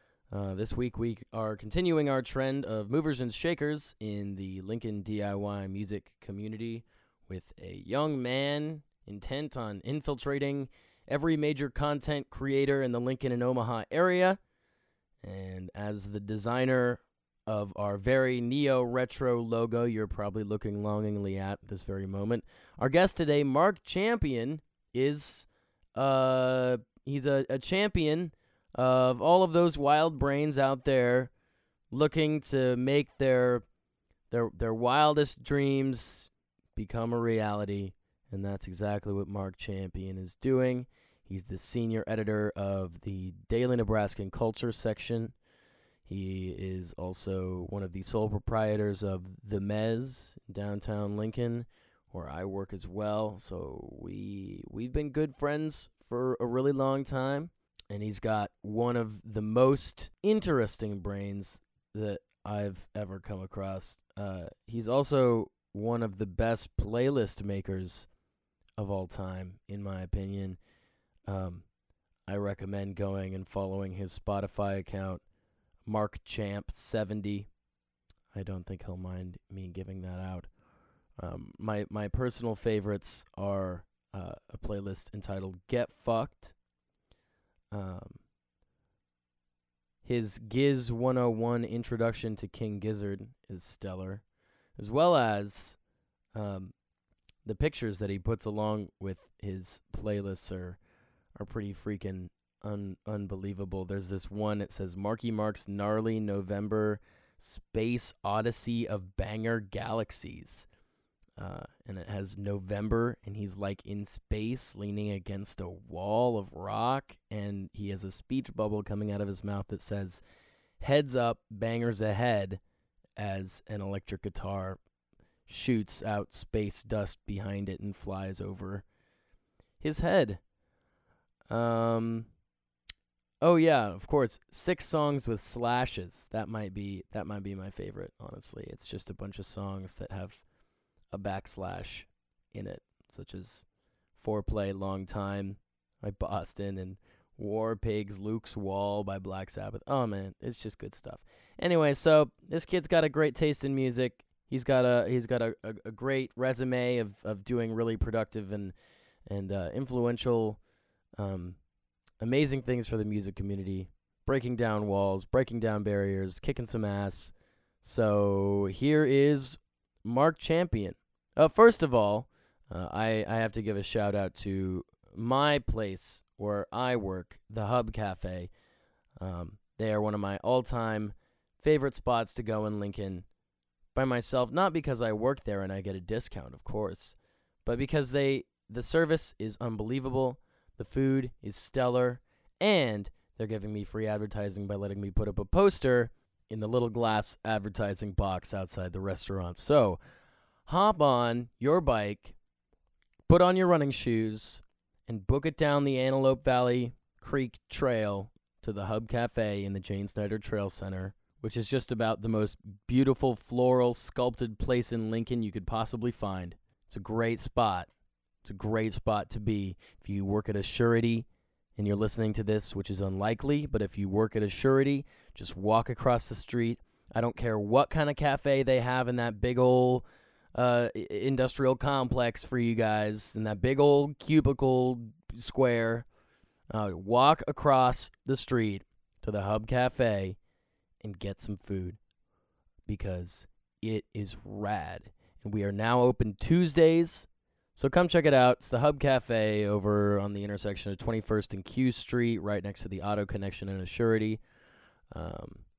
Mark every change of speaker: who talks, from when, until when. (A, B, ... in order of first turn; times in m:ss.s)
0:00.3-0:14.4 A
0:15.2-0:31.3 A
0:31.9-0:33.7 A
0:34.3-0:45.4 A
0:46.0-1:08.1 A
1:08.8-1:10.6 A
1:11.2-1:11.7 A
1:12.2-1:15.2 A
1:15.8-1:17.5 A
1:18.3-1:20.5 A
1:21.2-1:26.6 A
1:27.7-1:28.2 A
1:30.0-1:34.2 A
1:34.8-1:35.8 A
1:36.3-1:36.7 A
1:37.4-1:40.8 A
1:41.3-1:50.7 A
1:51.4-2:00.2 A
2:00.8-2:02.6 A
2:03.2-2:04.8 A
2:05.5-2:08.8 A
2:09.8-2:10.4 A
2:11.5-2:12.3 A
2:13.4-2:20.4 A
2:21.1-2:38.8 A
2:39.2-2:40.6 A
2:41.2-2:41.6 A
2:42.2-2:58.5 A
2:59.2-3:03.2 A
3:03.9-3:20.0 A
3:20.7-3:22.4 A
3:23.3-3:37.9 A
3:38.4-3:56.1 A
3:56.7-4:00.4 A
4:01.0-4:02.0 A
4:02.9-4:14.4 A
4:15.1-4:15.6 A